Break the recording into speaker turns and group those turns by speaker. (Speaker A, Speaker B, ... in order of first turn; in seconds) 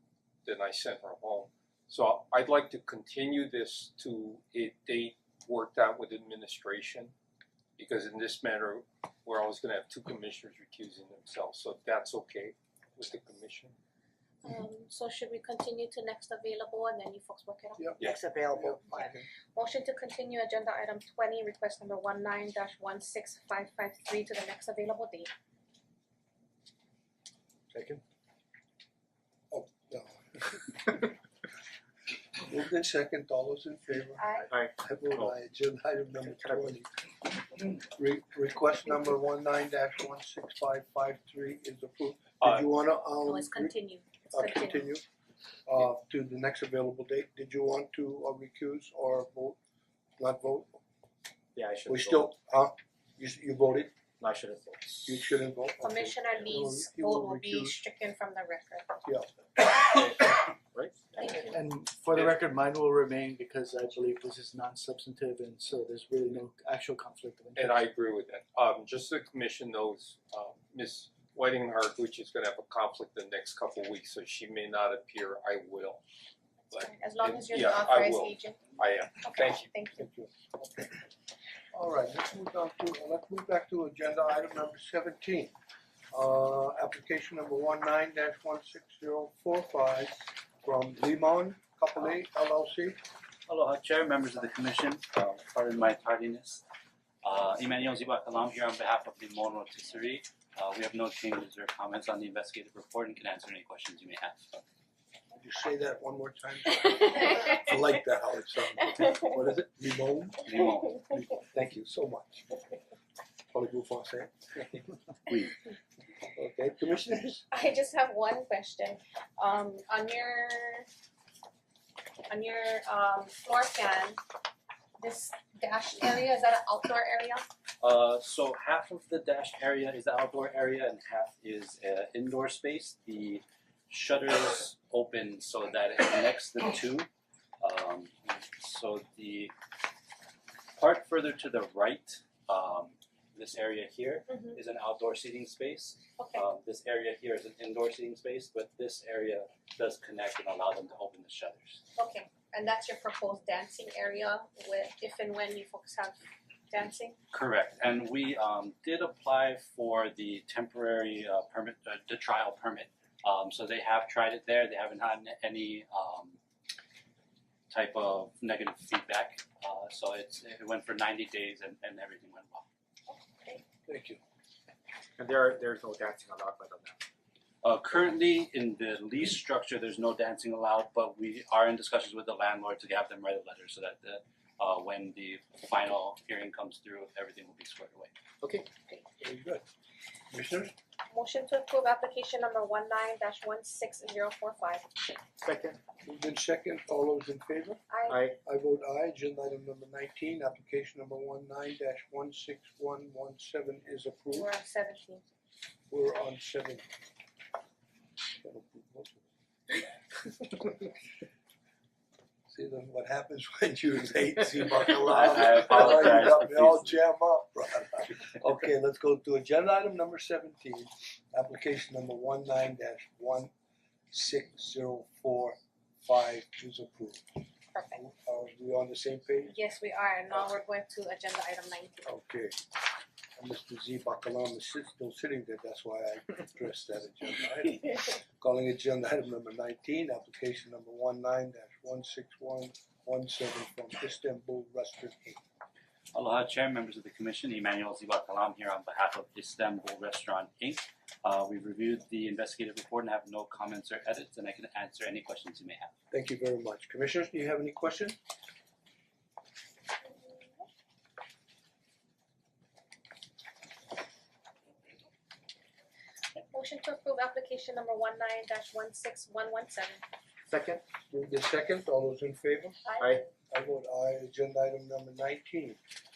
Speaker A: 0.4-7.1, 7.8-13.8, 42.4-42.7, 67.6-76.0, 76.7-79.7
Speaker B: 14.4-17.9, 19.5-25.3, 34.2-34.5, 43.2-44.9, 55.8-58.9, 76.7-80.0, 117.5-120.9, 122.3-124.2, 125.0-127.5, 144.3-144.6, 146.2-146.4, 151.9-157.2, 173.1-173.6, 191.1-194.8, 197.9-198.2, 204.3-205.2, 227.7-228.0, 229.5-232.0, 260.0-260.6, 266.4-270.0, 272.8-273.2
Speaker C: 17.8-19.3, 29.5-31.1, 32.4-36.9, 37.5-43.7, 44.3-45.0, 45.6-49.6, 50.2-50.8, 51.9-53.9, 55.0-57.8, 59.0-59.8, 80.0-81.0, 81.7-85.5, 86.1-93.0, 105.3-110.5, 111.3-112.6, 113.5-114.8, 116.3-117.4, 173.8-174.2, 189.2-189.6, 190.3-190.7, 196.0-197.8, 198.4-204.5, 205.9-206.9, 208.4-209.2, 212.5-223.5, 224.1-227.4, 227.9-229.6, 232.0-232.6, 233.4-245.4, 256.1-258.1, 271.1-272.8, 273.5-275.8
Speaker D: 18.2-18.6, 34.4-35.3, 36.2-36.7, 51.5-52.3, 54.2-55.2, 59.8-61.5, 175.2-177.0, 188.4-188.7, 195.4-195.8, 198.1-198.3, 270.5-270.8, 273.0-273.2
Speaker E: 61.5-67.8
Speaker F: 93.5-96.6, 97.2-104.6, 110.5-111.2, 115.3-115.5, 127.8-137.1, 137.6-139.5, 140.7-151.8, 157.3-166.4, 167.7-172.6, 177.6-188.1, 215.0-217.0, 246.1-255.9